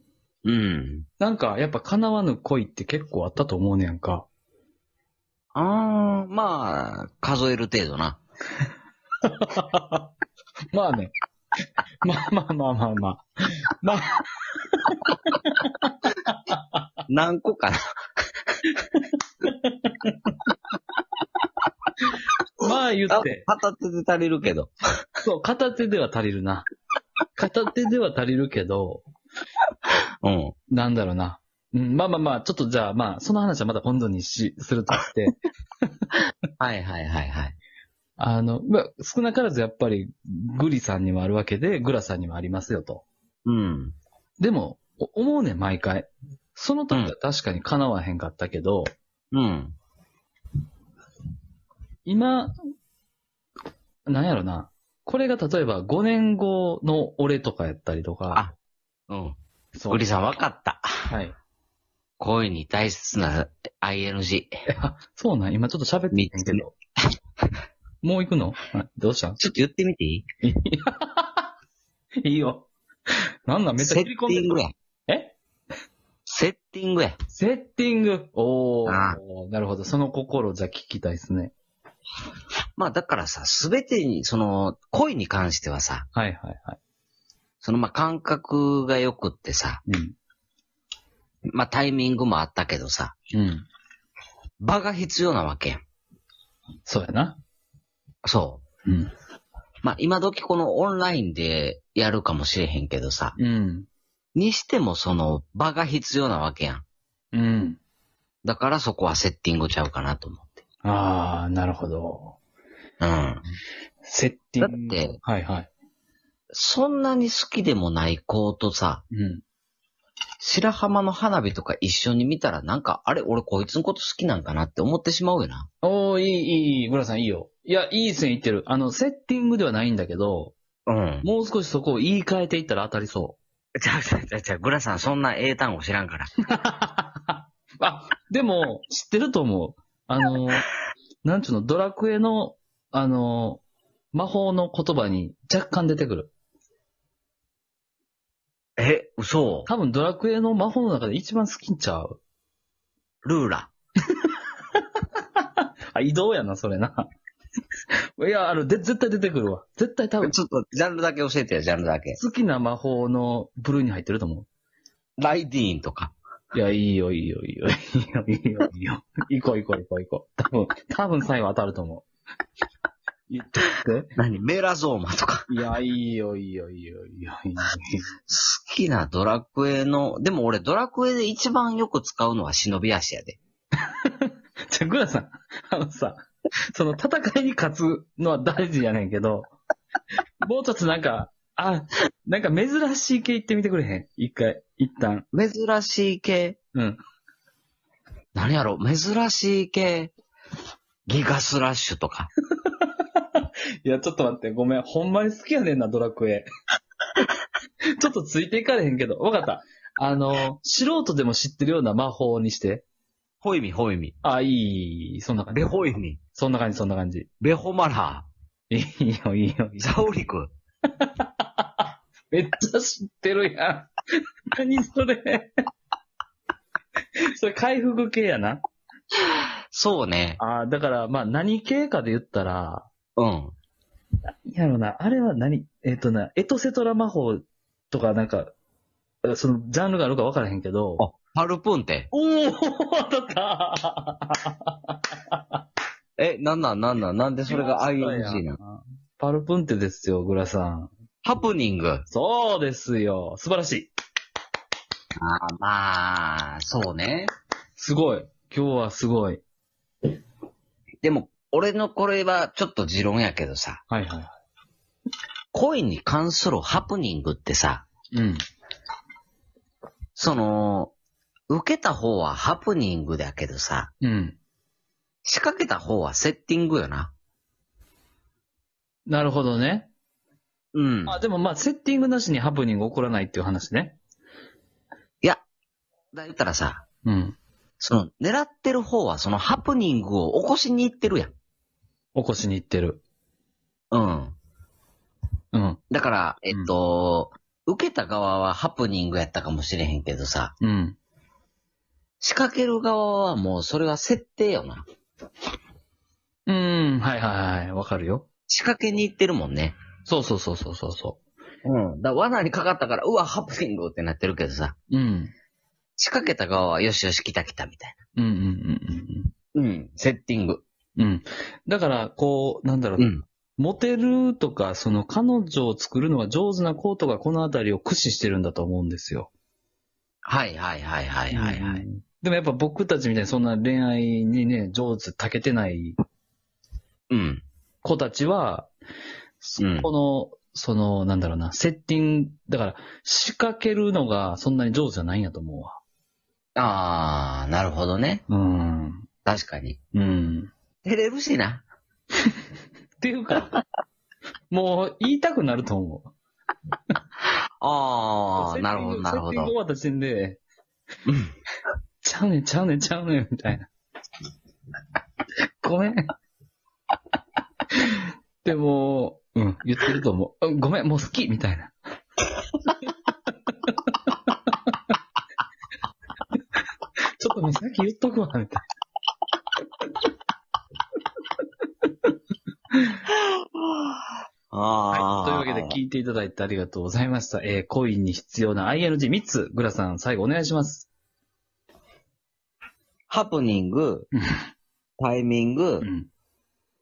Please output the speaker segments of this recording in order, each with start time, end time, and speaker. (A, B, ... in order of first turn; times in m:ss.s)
0:00.4-0:01.0 A
0:01.2-0:04.2 B
0:05.5-0:08.2 A
0:09.2-0:10.1 B
0:10.7-0:11.1 B
0:12.0-0:16.6 B
0:17.1-0:17.8 A
0:18.9-0:20.3 B
0:22.6-0:23.5 B
0:23.1-0:24.7 A
0:25.2-0:26.7 B
0:27.4-0:29.0 B
0:30.2-0:30.5 A
0:30.7-0:35.4 B
0:36.6-0:37.6 A
0:38.2-0:43.0 B
0:43.4-0:43.9 A
0:44.4-0:48.9 B
0:49.3-0:49.7 A
0:52.0-0:52.6 B
0:54.1-0:58.4 B
0:59.1-0:59.4 A
0:59.7-1:00.0 B
0:59.9-1:00.9 A
1:01.1-1:01.4 B
1:02.2-1:04.6 A
1:04.7-1:06.8 B
1:06.1-1:06.6 A
1:08.0-1:09.4 B
1:09.4-1:10.2 A
1:10.4-1:11.4 B
1:12.2-1:12.7 B
1:13.5-1:15.3 B
1:13.8-1:14.7 A
1:16.3-1:17.2 A
1:17.3-1:21.5 B
1:18.8-1:19.2 A
1:22.8-1:26.0 A
1:26.1-1:26.8 B
1:27.6-1:29.8 A
1:29.9-1:30.1 B
1:31.5-1:33.1 A
1:33.3-1:33.6 B
1:34.6-1:35.8 A
1:36.8-1:37.4 B
1:38.2-1:38.6 A
1:38.8-1:39.1 B
1:39.8-1:43.3 A
1:43.4-1:43.9 B
1:44.3-1:46.8 A
1:47.3-1:47.8 B
1:48.4-1:50.5 A
1:50.8-1:52.3 B
1:53.0-1:53.4 A
1:54.0-1:55.7 B
1:54.6-1:55.2 A
1:56.5-1:59.0 A
1:59.1-1:59.4 B
2:00.4-2:05.7 A
2:05.8-2:10.6 B
2:10.8-2:11.3 A
2:11.2-2:13.4 B
2:13.8-2:16.3 A
2:16.5-2:20.7 B
2:21.2-2:23.6 B
2:24.1-2:26.3 B
2:28.8-2:29.7 A
2:29.7-2:32.1 B
2:33.2-2:33.7 A
2:35.4-2:37.1 B
2:38.2-2:40.3 B
2:40.2-2:42.2 A
2:42.2-2:44.5 B
2:45.2-2:46.1 A
2:46.5-2:52.0 B
2:53.3-2:54.1 B
2:54.2-2:55.5 A
2:55.5-2:58.1 B
2:58.3-3:03.4 A
3:04.0-3:09.5 B
3:10.4-3:15.2 B
3:15.3-3:16.6 A
3:18.3-3:20.1 A
3:21.1-3:22.3 A
3:22.6-3:26.5 B
3:28.0-3:32.8 B
3:33.4-3:34.1 A
3:34.2-3:35.7 B
3:35.5-3:36.2 A
3:36.3-3:37.3 B
3:37.4-3:38.3 A
3:38.7-3:39.8 B
3:39.8-3:40.5 A
3:41.0-3:45.5 B
3:47.3-3:48.6 B
3:49.7-3:50.4 A
3:50.4-3:52.9 B
3:53.2-3:53.5 A
3:54.5-3:58.5 B
3:59.2-4:01.0 B
4:01.0-4:02.1 A
4:02.1-4:05.6 B
4:06.2-4:08.6 A
4:07.5-4:10.9 B
4:11.2-4:12.0 A
4:12.1-4:13.9 B
4:15.2-4:17.3 A
4:17.8-4:19.4 B
4:21.0-4:23.8 A
4:23.9-4:24.3 B
4:25.5-4:27.8 A
4:28.1-4:28.4 B
4:30.2-4:30.9 A
4:31.5-4:33.9 A
4:34.0-4:34.4 B
4:35.2-4:37.1 A
4:39.1-4:39.9 B
4:40.7-4:41.2 A
4:41.1-4:44.0 B
4:46.1-4:46.8 A
4:47.0-4:47.4 B
4:47.8-4:51.3 A
4:52.1-4:53.0 B
4:53.9-4:54.3 A
4:55.5-4:55.8 B
4:55.9-5:00.5 A
5:00.6-5:01.0 B
5:02.2-5:04.8 A
5:06.5-5:08.2 B
5:08.5-5:09.8 A
5:10.0-5:11.2 B
5:11.6-5:14.7 A
5:14.9-5:15.3 B
5:16.0-5:17.9 A
5:18.2-5:19.3 B
5:19.5-5:20.6 A
5:21.0-5:29.3 B
5:23.0-5:23.2 A
5:30.2-5:31.8 A
5:31.3-5:36.0 B
5:37.1-5:37.4 A
5:37.8-5:38.7 B
5:39.4-5:45.8 B
5:39.6-5:39.9 A
5:46.6-5:48.2 A
5:48.3-5:49.0 B
5:49.2-5:49.8 A
5:49.9-5:50.5 B
5:50.8-5:51.6 A
5:53.0-5:53.5 B
5:54.5-5:56.1 B
5:57.6-5:59.5 A
5:58.4-6:00.4 B
6:01.0-6:01.3 A
6:02.0-6:03.7 B
6:05.6-6:06.1 B
6:07.7-6:11.7 B
6:13.5-6:14.5 B
6:17.2-6:18.6 B
6:23.0-6:23.9 A
6:24.5-6:25.8 A
6:24.9-6:30.9 B
6:33.1-6:34.1 A
6:35.0-6:35.8 A
6:35.8-6:36.1 B